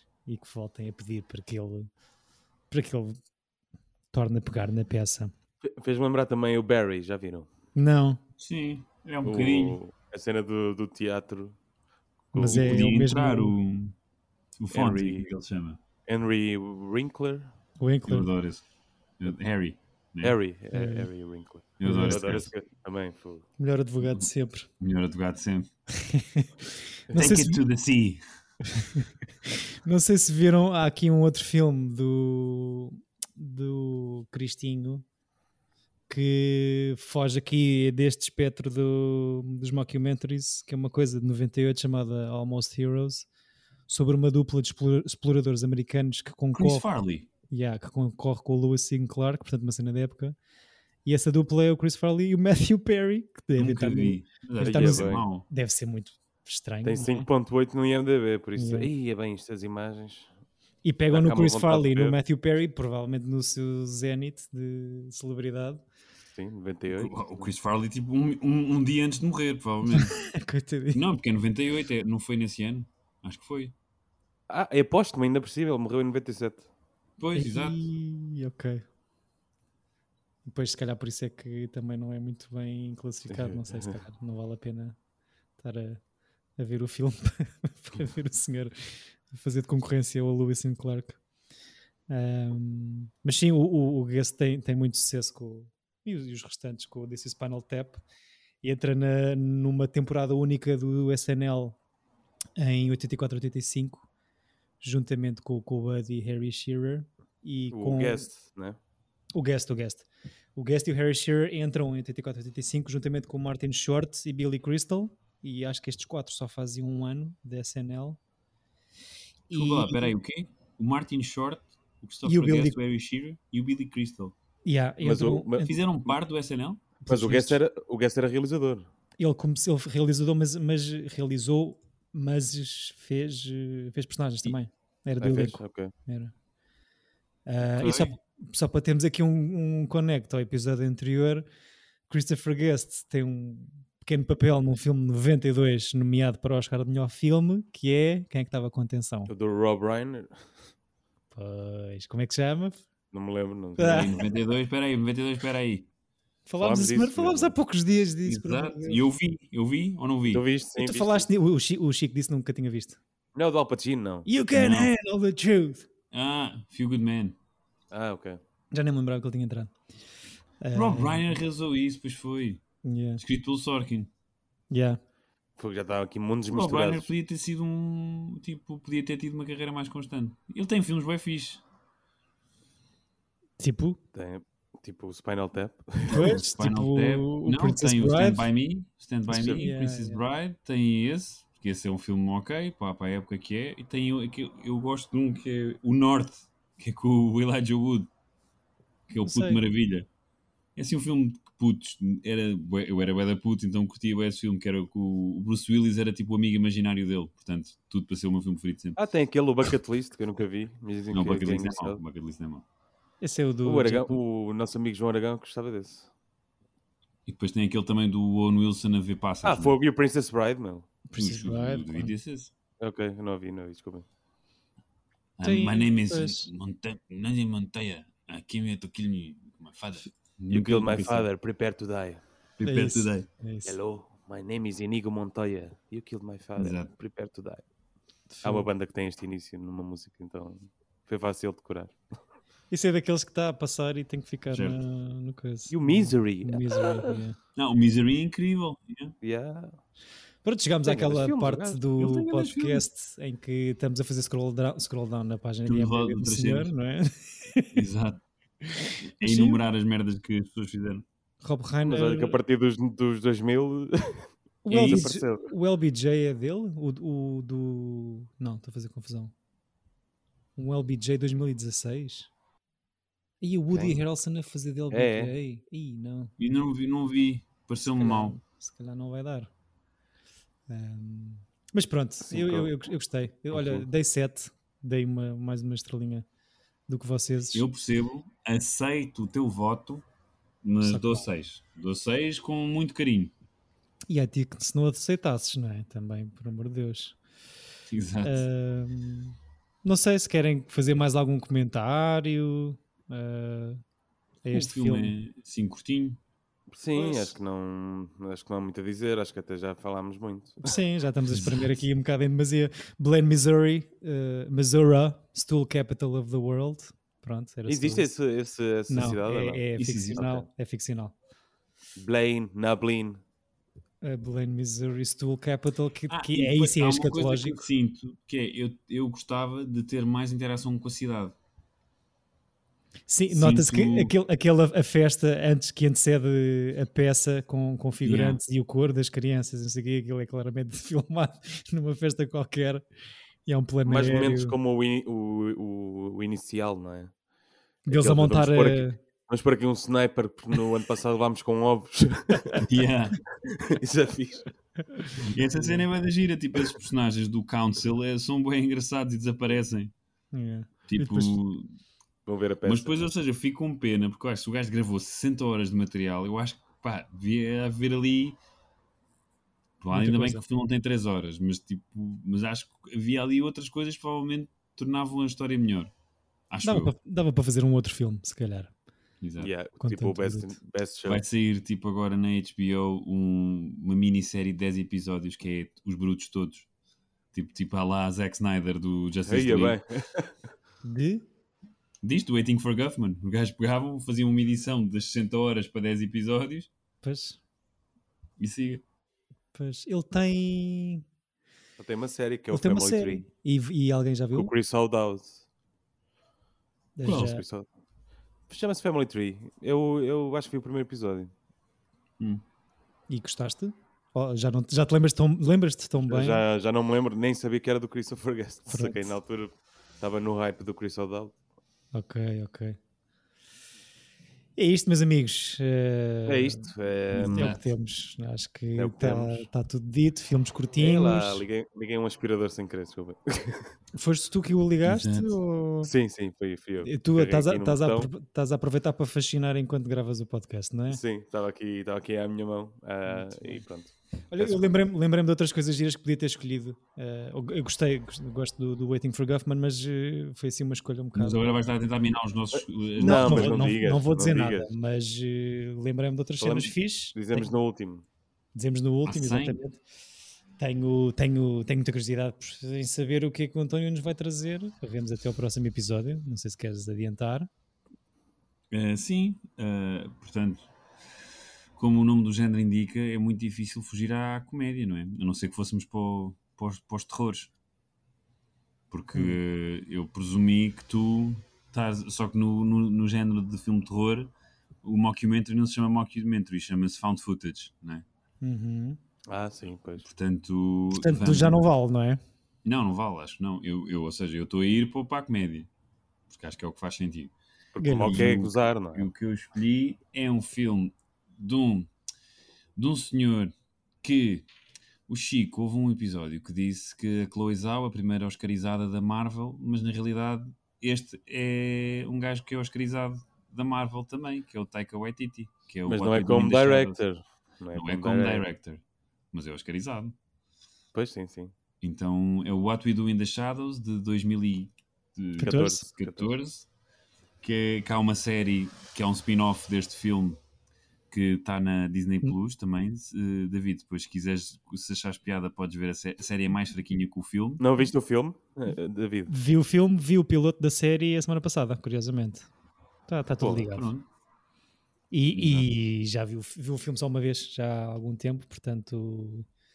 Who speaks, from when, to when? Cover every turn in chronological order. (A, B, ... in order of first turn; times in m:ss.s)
0:00.3-0:01.9 A
0:02.7-0:03.2 A
0:04.1-0:05.3 A
0:05.6-0:07.5 B
0:07.8-0:08.2 A
0:08.4-0:09.8 C
0:09.2-0:11.6 B
0:12.3-0:12.8 B
0:12.3-0:13.6 A
0:12.4-0:14.0 C
0:14.6-0:15.8 C
0:14.7-0:15.3 B
0:16.1-0:17.5 B
0:17.8-0:18.3 A
0:18.1-0:18.6 C
0:19.2-0:20.4 C
0:20.2-0:23.5 B
0:20.7-0:21.1 A
0:21.8-0:22.5 C
0:21.8-0:22.3 A
0:23.6-0:24.7 A
0:24.8-0:25.7 C
0:25.9-0:27.6 A
0:27.1-0:28.2 C
0:28.9-0:35.0 A
0:36.1-0:43.3 A
0:43.9-0:46.9 A
0:46.5-0:47.3 C
0:47.5-0:50.4 A
0:51.0-0:57.3 A
0:53.6-0:55.5 C
0:54.6-0:55.3 B
0:56.8-1:00.3 B
0:58.6-0:58.9 A
1:00.8-1:05.8 A
1:01.1-1:02.2 B
1:06.3-1:07.5 B
1:06.9-1:10.2 C
1:09.9-1:11.0 A
1:10.9-1:13.7 C
1:14.5-1:16.7 B
1:17.2-1:17.8 C
1:17.4-1:18.8 A
1:20.5-1:25.0 A
1:23.3-1:24.0 B
1:25.6-1:26.0 A
1:26.6-1:31.2 A
1:32.1-1:38.0 A
1:38.6-1:41.8 A
1:42.6-1:44.1 A
1:44.8-1:48.3 A
1:47.7-1:48.8 B
1:49.4-1:58.2 A
1:59.5-2:00.1 A
1:59.5-2:04.3 C
2:02.2-2:02.8 A
2:04.6-2:05.7 A
2:05.0-2:05.7 B
2:05.6-2:07.2 C
2:07.1-2:07.6 A
2:07.1-2:08.9 B
2:09.2-2:16.3 A
2:15.2-2:15.9 B
2:17.5-2:21.4 A
2:17.7-2:18.1 C
2:22.1-2:29.3 A
2:29.3-2:30.6 B
2:31.3-2:32.8 A
2:33.1-2:34.3 B
2:33.8-2:34.2 A
2:33.8-2:35.9 C
2:36.5-2:39.0 A
2:36.6-2:37.5 B
2:38.3-2:40.4 C
2:40.3-2:41.3 B
2:40.8-2:43.0 A
2:43.3-2:44.3 B
2:44.3-2:45.9 A
2:44.5-2:44.9 C
2:46.1-2:47.4 C
2:47.9-2:48.4 B
2:48.7-2:49.7 A
2:50.6-2:51.3 A
2:50.7-2:52.6 C
2:52.8-2:53.2 A
2:53.2-2:54.1 C
2:54.7-2:55.0 A
2:55.6-2:57.1 B
2:56.5-3:01.6 C
3:03.6-3:04.0 A
3:04.1-3:06.4 B
3:06.1-3:08.5 A
3:06.1-3:18.1 C
3:09.3-3:09.7 B
3:09.5-3:10.2 A
3:19.1-3:20.1 C
3:19.2-3:19.6 A
3:20.8-3:29.0 C
3:29.0-3:32.0 B
3:31.1-3:32.6 C
3:33.2-3:34.2 A
3:33.6-3:36.1 B
3:37.2-3:39.8 C
3:39.4-3:40.9 B
3:41.1-3:42.1 A
3:41.2-3:42.5 C
3:42.8-3:44.1 B
3:45.4-3:51.3 C
3:45.4-3:46.5 A
3:50.5-3:52.2 B
3:52.6-3:53.3 C
3:52.6-3:53.8 A
3:53.6-3:57.6 B
3:56.6-3:56.9 C
3:58.3-3:58.7 A
3:58.4-4:02.0 B
4:02.7-4:07.4 A
4:04.5-4:04.8 C
4:05.7-4:07.2 B
4:07.6-4:09.2 C
4:09.2-4:09.8 B
4:10.4-4:17.8 A
4:10.8-4:11.8 B
4:12.0-4:12.8 C
4:15.6-4:16.7 C
4:17.7-4:18.2 C
4:18.7-4:19.6 A
4:19.0-4:21.0 C
4:21.4-4:22.4 A
4:21.8-4:25.5 B
4:24.6-4:29.3 A
4:24.7-4:25.1 C
4:30.6-4:32.3 A
4:33.4-4:36.3 A
4:33.7-4:34.0 B
4:34.9-4:35.3 B
4:36.4-4:38.4 C
4:38.0-4:39.5 A
4:40.7-4:46.2 A
4:42.3-4:42.7 B
4:43.5-4:43.8 B
4:46.9-4:47.6 A
4:47.5-4:50.0 C
4:50.6-4:53.3 C
4:50.8-4:51.2 A
4:54.1-4:57.2 A
4:57.9-4:58.4 C
4:58.2-5:03.8 A
5:04.4-5:05.2 A
5:04.5-5:06.2 C
5:06.7-5:10.8 B
5:07.0-5:07.3 A
5:10.6-5:18.1 A
5:11.3-5:11.7 C
5:17.7-5:19.6 B
5:18.9-5:21.2 A
5:19.8-5:20.2 C
5:20.2-5:20.5 B
5:22.0-5:23.2 B
5:24.0-5:27.6 A
5:26.1-5:31.4 C
5:33.1-5:42.8 A
5:33.3-5:34.1 C
5:38.0-5:38.4 C
5:43.5-5:44.6 A
5:43.8-5:47.1 B
5:47.9-5:49.0 A
5:47.9-5:52.6 B
5:52.6-5:53.2 C
5:53.4-5:54.5 B
5:54.9-5:55.8 A
5:55.2-5:59.9 C
6:00.3-6:01.4 A
6:00.9-6:01.7 C
6:02.2-6:03.0 B
6:02.6-6:08.4 C
6:09.8-6:15.9 C
6:09.9-6:10.4 A
6:16.5-6:16.9 C
6:16.6-6:18.7 A
6:19.2-6:19.5 C
6:19.4-6:21.2 B
6:19.8-6:20.6 A
6:21.1-6:26.7 C
6:27.3-6:29.8 C
6:29.2-6:30.5 B
6:30.8-6:31.2 A
6:32.0-6:36.7 C
6:37.0-6:37.4 A
6:38.4-6:38.8 C
6:39.5-6:41.0 A
6:41.8-6:43.2 B
6:42.5-6:44.5 A
6:44.3-6:45.4 B
6:47.0-6:47.4 A
6:47.0-6:47.3 C
6:47.0-6:47.7 B
6:48.5-6:51.3 B
6:53.1-6:56.4 A
6:56.0-7:01.4 B
6:58.7-6:59.2 A
7:01.9-7:02.8 A
7:04.6-7:06.7 A
7:06.2-7:07.6 B
7:07.1-7:07.6 C
7:07.3-7:11.4 A
7:08.8-7:09.5 B
7:10.8-7:13.7 B
7:13.9-7:15.9 A
7:14.8-7:15.3 C
7:15.8-7:18.1 B
7:16.8-7:21.0 A
7:20.9-7:24.8 B
7:23.1-7:23.6 A
7:24.3-7:31.4 A
7:31.2-7:33.6 C
7:32.5-7:34.7 B
7:33.0-7:37.5 A
7:36.4-7:38.0 B
7:38.6-7:39.8 A
7:39.1-7:39.6 C
7:40.6-7:47.5 A
7:48.7-7:50.6 C
7:51.8-7:57.5 C
7:58.9-8:04.3 C
8:04.8-8:08.0 C
8:08.4-8:09.0 A
8:09.3-8:10.1 B
8:10.0-8:11.6 C
8:10.9-8:12.2 A
8:12.6-8:15.7 C
8:16.3-8:17.3 C
8:17.8-8:19.1 B
8:17.8-8:18.3 A
8:18.0-8:21.9 C
8:22.8-8:24.5 C
8:25.1-8:37.0 C
8:35.9-8:38.5 B
8:37.7-8:38.8 C
8:39.3-8:40.2 C
8:40.9-8:41.5 B
8:41.8-8:46.7 C
8:45.4-8:46.3 B
8:45.4-8:45.9 A
8:47.4-8:50.4 C
8:51.1-8:57.6 C
8:57.6-8:59.3 B
8:59.3-9:02.5 A
9:03.1-9:03.9 A
9:03.4-9:03.7 B
9:03.6-9:04.1 C
9:05.1-9:09.5 A